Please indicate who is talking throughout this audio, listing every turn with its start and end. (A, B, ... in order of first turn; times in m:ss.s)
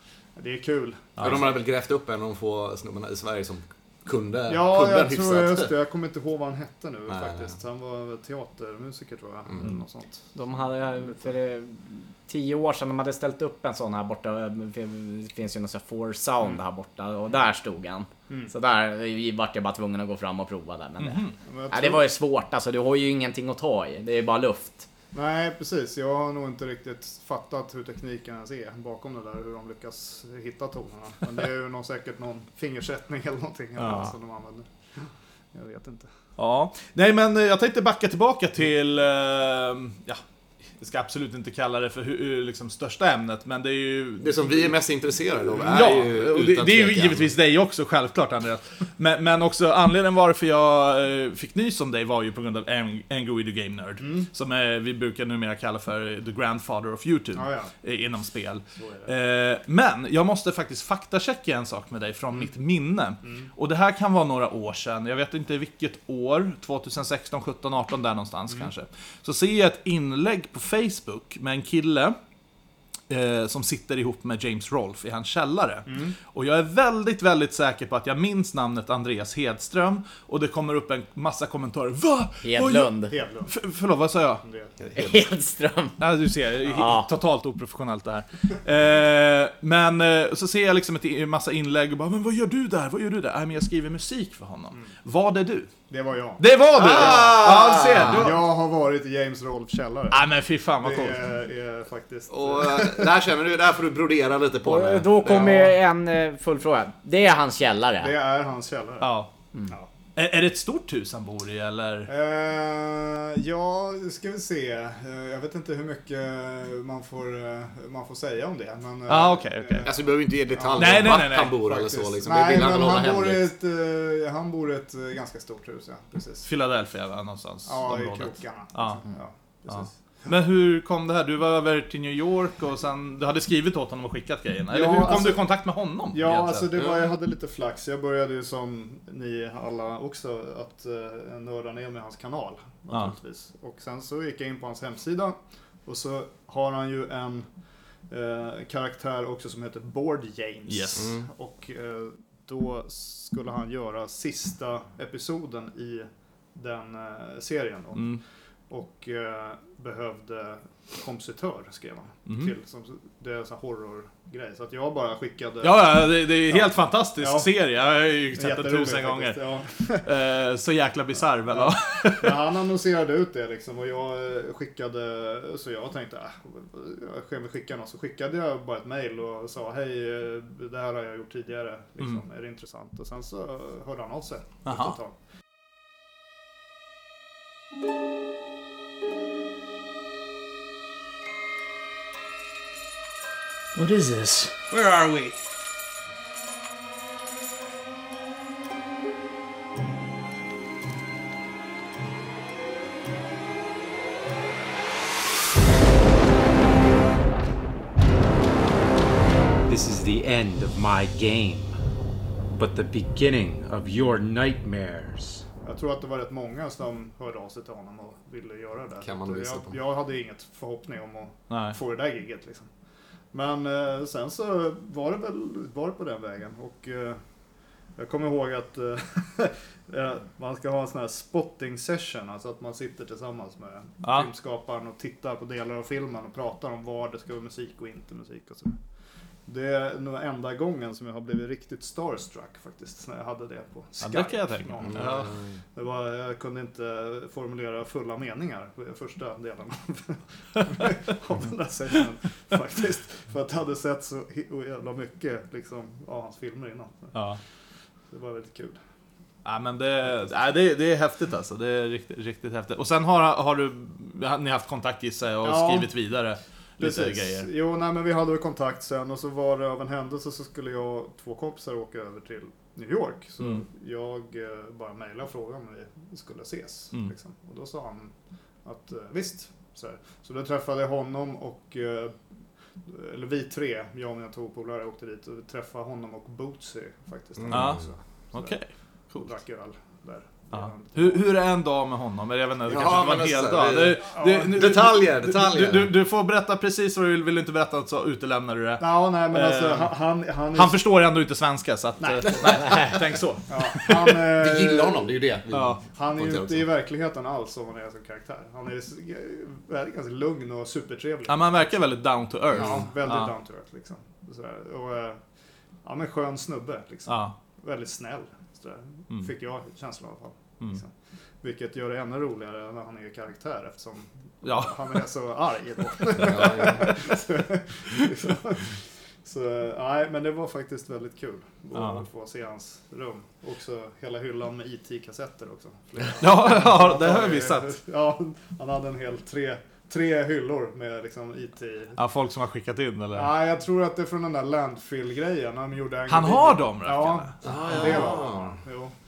0:00.4-0:01.4 A
0:01.2-0:05.7 B
0:04.5-0:10.3 A
0:07.1-0:07.5 B
0:10.3-0:24.9 C
0:21.0-0:21.4 D
0:21.4-0:22.0 A
0:25.1-0:34.6 A
0:33.8-0:34.1 D
0:35.5-0:36.1 A
0:36.4-0:40.2 D
0:40.8-0:44.5 D
0:44.2-0:47.3 B
0:45.6-1:12.2 D
0:54.0-0:54.3 A
0:57.3-0:57.7 A
0:58.8-0:59.1 A
1:13.1-1:22.9 D
1:15.9-1:16.1 A
1:22.4-1:23.1 C
1:23.1-1:23.5 A
1:23.4-1:24.4 D
1:24.4-1:24.7 A
1:24.8-1:25.2 B
1:24.9-1:26.0 C
1:26.0-1:35.7 D
1:26.7-1:27.1 C
1:35.9-1:40.2 A
1:36.4-1:38.4 D
1:36.8-1:38.3 B
1:40.1-1:41.2 D
1:40.8-1:43.1 A
1:42.3-1:45.7 B
1:44.6-1:48.1 C
1:48.0-1:49.1 A
1:49.0-1:49.3 D
1:50.2-1:52.1 D
1:52.1-1:59.9 A
1:59.1-1:59.9 D
1:59.8-2:03.5 B
2:00.5-2:06.5 A
2:00.8-2:01.6 D
2:06.4-2:09.0 D
2:07.7-2:09.9 A
2:09.7-2:16.7 D
2:14.7-2:15.4 A
2:16.1-2:27.5 A
2:16.8-2:17.0 B
2:28.1-2:38.2 A
2:30.7-2:31.1 D
2:31.0-2:31.2 B
2:37.9-2:38.2 D
2:38.7-2:47.5 A
2:42.3-2:42.5 D
2:45.6-2:49.4 D
2:48.3-2:50.0 A
2:49.9-2:52.4 D
2:51.5-3:05.1 A
3:04.6-3:05.0 D
3:13.8-3:14.5 D
3:14.7-3:15.4 E
3:29.7-3:31.8 E
3:32.5-3:35.4 E
3:35.6-3:42.7 A
3:39.0-3:39.8 B
3:41.5-3:41.8 D
3:43.3-3:47.2 A
3:48.0-3:58.8 A
3:54.0-3:54.3 D
3:59.4-4:17.1 A
4:04.0-4:05.3 D
4:04.8-4:05.6 B
4:17.1-4:17.4 D
4:18.1-4:18.8 A
4:19.4-4:27.5 D
4:25.4-4:25.9 A
4:26.8-4:38.1 A
4:38.6-4:42.2 A
4:42.8-4:48.5 A
4:47.4-4:47.9 B
4:47.5-4:49.3 D
4:49.2-4:51.2 A
4:50.5-4:59.9 D
4:52.7-4:55.9 B
4:54.2-4:54.5 A
4:58.8-5:00.8 A
5:00.5-5:04.2 D
5:02.0-5:02.9 A
5:03.5-5:05.1 A
5:04.3-5:06.7 B
5:05.5-5:05.8 D
5:05.9-5:11.7 A
5:11.3-5:13.3 D
5:12.5-5:15.2 A
5:12.6-5:12.8 B
5:15.8-5:20.9 A
5:17.1-5:17.3 D
5:21.4-5:42.0 A
5:24.4-5:24.9 D
5:26.1-5:27.0 B
5:31.7-5:32.0 D
5:36.2-5:37.8 D
5:42.0-5:43.3 D
5:43.1-5:48.9 A
5:46.1-5:48.1 D
5:47.4-5:48.6 B